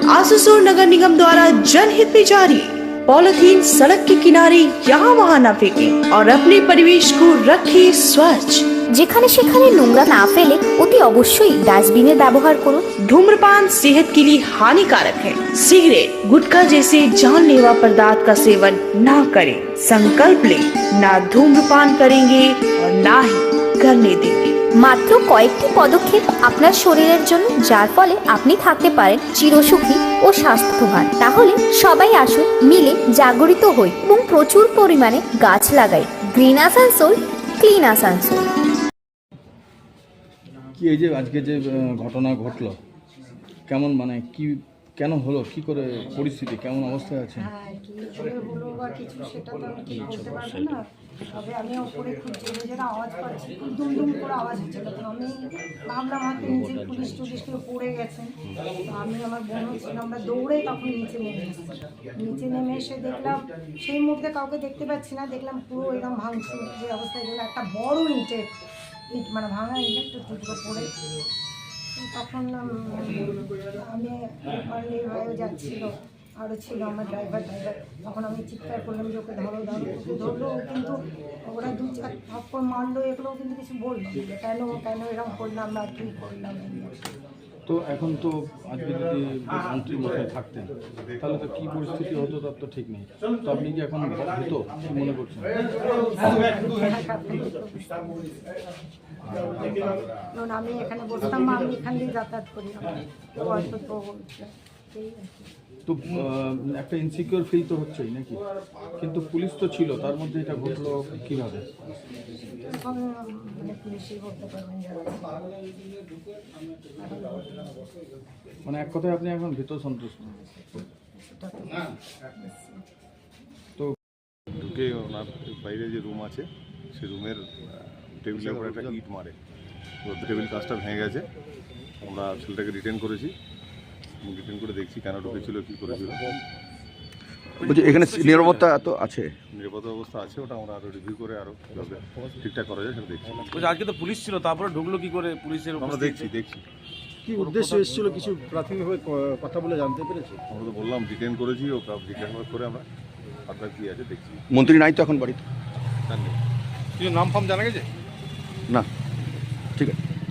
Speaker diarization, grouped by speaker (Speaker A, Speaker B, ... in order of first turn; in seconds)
Speaker A: 0.1-8.7, 13.0-24.6
Speaker B: 9.0-12.8, 24.8-38.5
Speaker C: 40.8-42.8, 43.7-47.5, 87.7-95.6, 105.9-108.4, 109.0-111.8, 118.7-120.2
Speaker D: 47.4-58.4, 58.9-68.5, 69.1-70.9, 72.0-87.0, 95.8-98.6, 99.4-105.5, 112.2-115.4, 117.0-117.9, 120.2-122.8
Speaker E: 124.6-126.4, 127.0-127.4, 128.3-129.3, 130.1-131.2, 132.0-133.3, 134.3-136.2, 139.6-143.3, 145.8-146.6, 150.5-152.8, 153.5-154.4, 156.1-156.3
Speaker F: 128.3-129.0, 137.6-138.8, 143.3-146.6, 147.4-147.8
Speaker G: 137.6-139.3, 154.5-155.4
Speaker H: 147.3-150.4